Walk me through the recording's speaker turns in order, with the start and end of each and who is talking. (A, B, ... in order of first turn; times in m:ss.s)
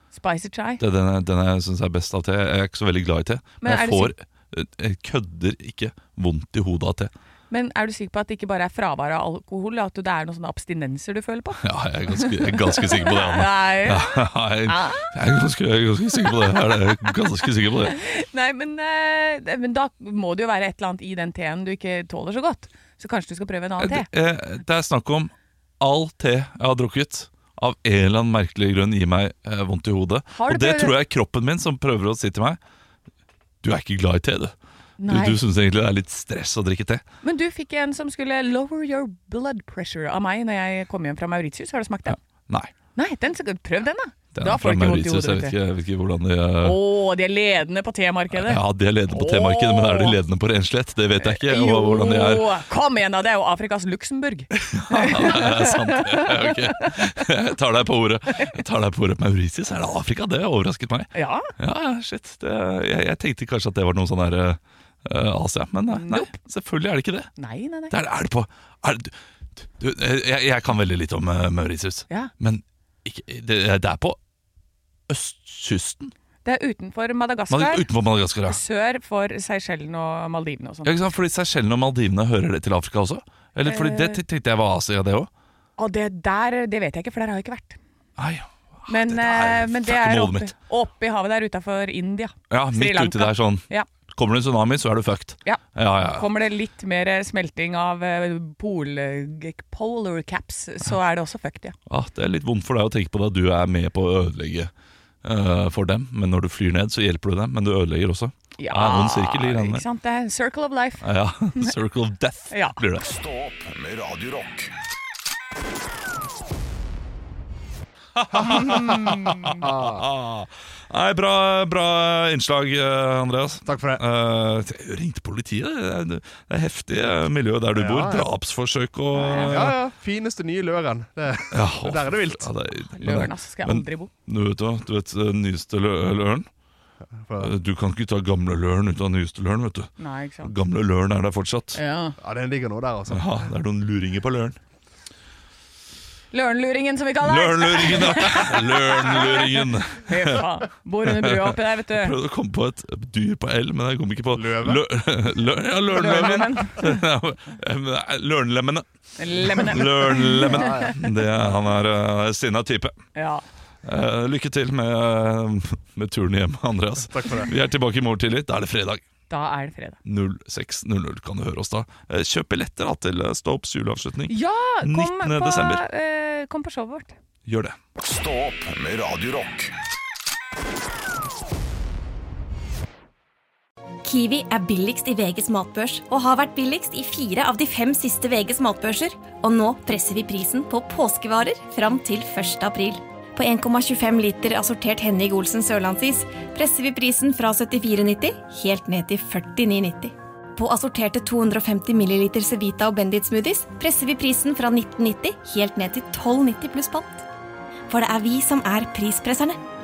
0:00.1-0:00.8 A
0:00.8-0:07.1 B
0:03.6-0:04.1 A
0:07.5-0:11.6 A
0:11.6-0:17.9 B
0:12.1-0:14.1 A
0:14.6-0:15.1 A
0:17.8-0:24.0 A
0:23.8-0:32.6 B
0:30.3-0:30.9 A
0:33.6-0:34.5 B
0:35.0-0:35.4 A
0:35.1-0:37.0 B
0:37.2-0:42.2 A
0:42.1-0:42.7 B
0:43.0-0:45.6 A
0:44.3-0:46.8 B
0:46.6-0:50.2 A
0:48.3-0:52.5 B
0:51.2-0:56.9 A
0:54.7-1:07.3 B
1:01.1-1:01.5 A
1:05.9-1:06.3 A
1:07.4-1:07.9 A
1:07.9-1:14.2 B
1:15.1-1:16.1 B
1:16.4-1:17.9 A
1:17.5-1:18.6 B
1:18.5-1:20.9 A
1:20.8-1:25.3 B
1:23.6-1:24.2 A
1:25.8-1:27.8 A
1:28.2-1:30.5 B
1:28.9-1:33.9 A
1:32.5-1:36.3 B
1:35.4-1:41.7 A
1:41.9-1:44.7 B
1:45.2-1:49.8 B
1:48.6-1:51.0 A
1:51.0-1:53.1 B
1:52.5-1:52.8 A
1:53.0-1:54.7 C
1:58.1-2:09.8 B
1:58.3-1:59.6 A
1:59.6-2:00.0 D
2:03.6-2:04.0 D
2:07.7-2:08.3 D
2:09.1-2:09.6 A
2:09.3-2:12.5 D
2:11.5-2:16.5 B
2:13.0-2:14.1 A
2:17.1-2:17.5 D
2:17.4-2:19.9 B
2:20.0-2:20.5 A
2:20.4-2:21.8 B
2:21.7-2:22.2 A
2:22.2-2:23.4 D
2:23.1-2:24.6 B
2:26.3-2:32.1 A
2:27.2-2:30.4 B
2:31.0-2:38.8 B
2:34.3-2:34.8 D
2:35.9-2:37.0 A
2:39.2-2:41.1 A
2:39.4-2:43.0 B
2:40.5-2:40.9 D
2:43.1-2:43.4 A
2:43.8-2:49.0 B
2:47.1-2:47.5 D
2:49.3-2:50.0 A
2:50.0-2:55.8 B
2:54.3-2:57.1 A
2:57.4-2:57.7 B
2:58.0-2:59.7 C
3:04.0-3:27.2 E
3:27.9-3:29.6 E